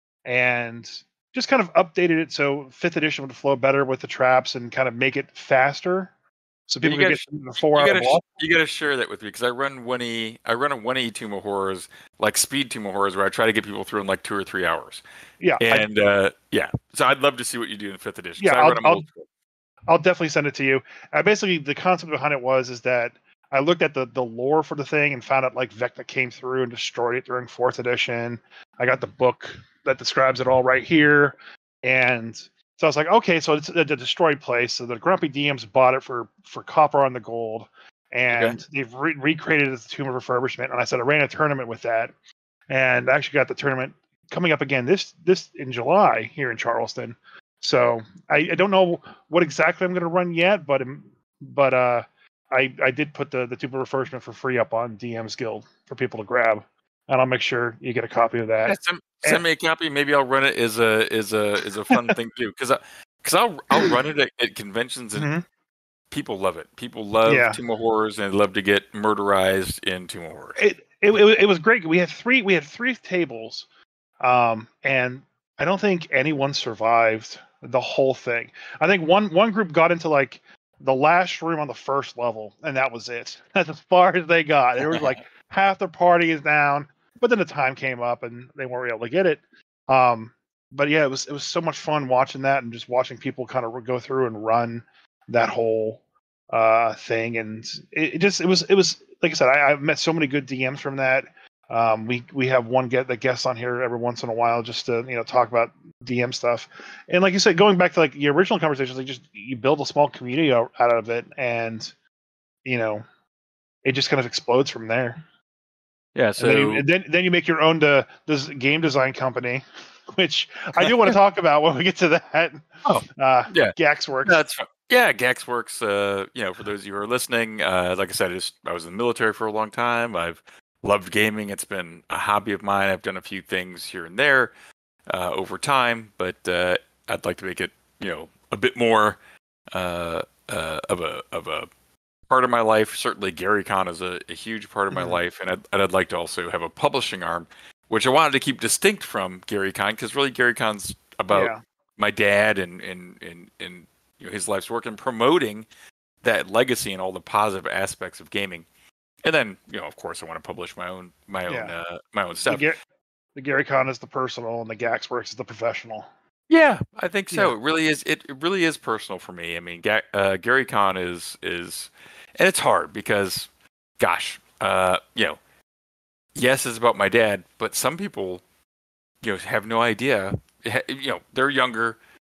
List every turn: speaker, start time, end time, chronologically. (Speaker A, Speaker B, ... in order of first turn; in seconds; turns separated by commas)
Speaker A: 0.2-6.1, Speaker A: 6.7-8.2, Speaker B: 6.8-15.0, Speaker A: 15.4-15.9, Speaker B: 15.6-19.2, Speaker A: 18.4-19.0, Speaker A: 19.9-42.1, Speaker B: 38.3-38.6, Speaker A: 42.7-59.4, Speaker B: 58.7-65.3, Speaker A: 65.2-65.4, Speaker B: 66.1-70.5, Speaker A: 67.2-67.6, Speaker A: 70.6-73.7, Speaker A: 74.2-96.0, Speaker A: 96.5-111.9, Speaker A: 112.6-113.0, Speaker A: 113.8-115.2, Speaker B: 116.1-116.8, Speaker A: 116.4-124.4, Speaker B: 120.8-121.1, Speaker B: 122.8-134.5, Speaker B: 135.1-139.2, Speaker B: 139.7-141.7, Speaker B: 142.3-155.7, Speaker A: 144.9-145.2, Speaker A: 151.3-151.6, Speaker B: 156.2-158.7, Speaker B: 159.2-162.7, Speaker A: 161.5-161.7, Speaker A: 162.5-162.8, Speaker A: 163.3-166.1, Speaker B: 166.5-175.4, Speaker B: 176.3-178.4, Speaker B: 179.2-182.0